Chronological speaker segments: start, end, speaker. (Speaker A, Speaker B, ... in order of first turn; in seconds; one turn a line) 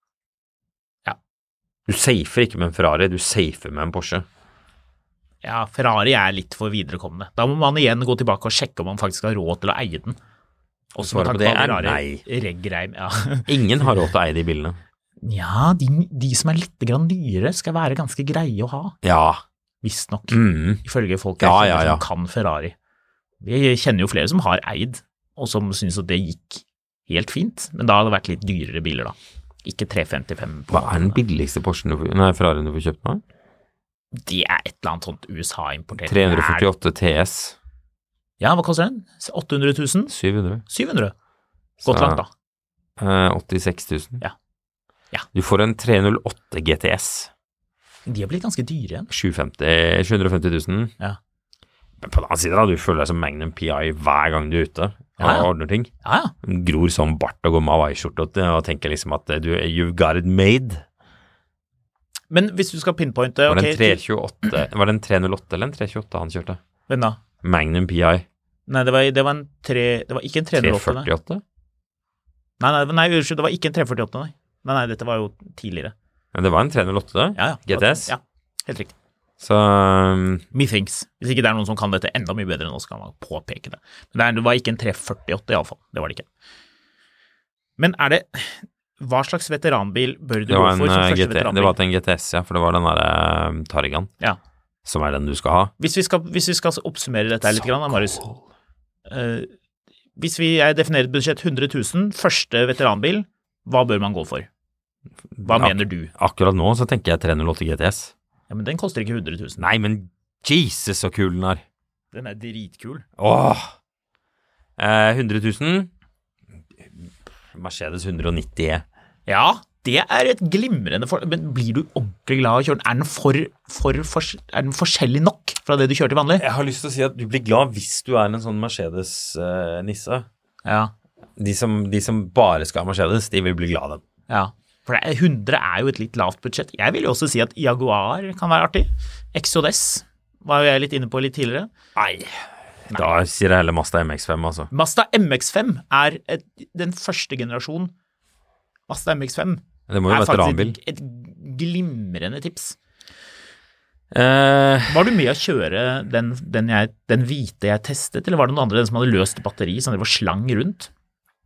Speaker A: 1.9-4.2
Speaker B: 5.4-10.2
Speaker B: 10.9-14.0
Speaker A: 11.0-12.2
Speaker A: 13.5-14.8
Speaker B: 15.2-19.0
Speaker A: 19.0-19.4
Speaker B: 19.8-22.8
Speaker A: 20.3-20.8
Speaker A: 21.4-22.0
Speaker B: 23.4-31.2
Speaker A: 30.7-33.2
Speaker B: 34.1-36.7
Speaker A: 36.0-37.6
Speaker B: 38.4-40.1
Speaker A: 40.1-40.6
Speaker B: 40.7-41.1
Speaker A: 41.8-42.2
Speaker B: 41.8-42.3
Speaker A: 43.0-44.2
Speaker A: 45.3-47.3
Speaker B: 48.1-49.1
Speaker A: 49.1-50.9
Speaker A: 52.0-55.9
Speaker B: 55.2-55.5
Speaker B: 56.0-56.3
Speaker A: 56.4-60.8
Speaker B: 62.3-64.0
Speaker A: 63.5-66.6
Speaker B: 66.9-67.2
Speaker A: 67.4-68.3
Speaker B: 68.7-71.1
Speaker A: 70.5-71.4
Speaker B: 72.6-75.9
Speaker A: 76.3-78.1
Speaker B: 77.4-78.9
Speaker A: 79.4-80.5
Speaker B: 80.5-86.3
Speaker B: 87.8-91.8
Speaker A: 90.5-94.1
Speaker A: 94.8-95.7
Speaker B: 95.8-98.2
Speaker A: 97.5-98.4
Speaker B: 99.1-99.5
Speaker B: 100.2-104.5
Speaker A: 105.4-108.1
Speaker B: 105.5-106.1
Speaker B: 108.5-109.6
Speaker A: 109.6-111.6
Speaker B: 112.1-113.0
Speaker A: 113.2-113.8
Speaker A: 114.8-115.9
Speaker A: 116.8-118.8
Speaker B: 119.3-126.4
Speaker A: 126.4-130.3
Speaker B: 130.7-130.9
Speaker A: 131.4-134.0
Speaker B: 134.3-141.7
Speaker A: 141.9-144.7
Speaker B: 142.9-143.2
Speaker B: 144.7-147.9
Speaker B: 148.9-152.8
Speaker A: 149.9-150.8
Speaker A: 154.1-155.1
Speaker B: 154.9-160.9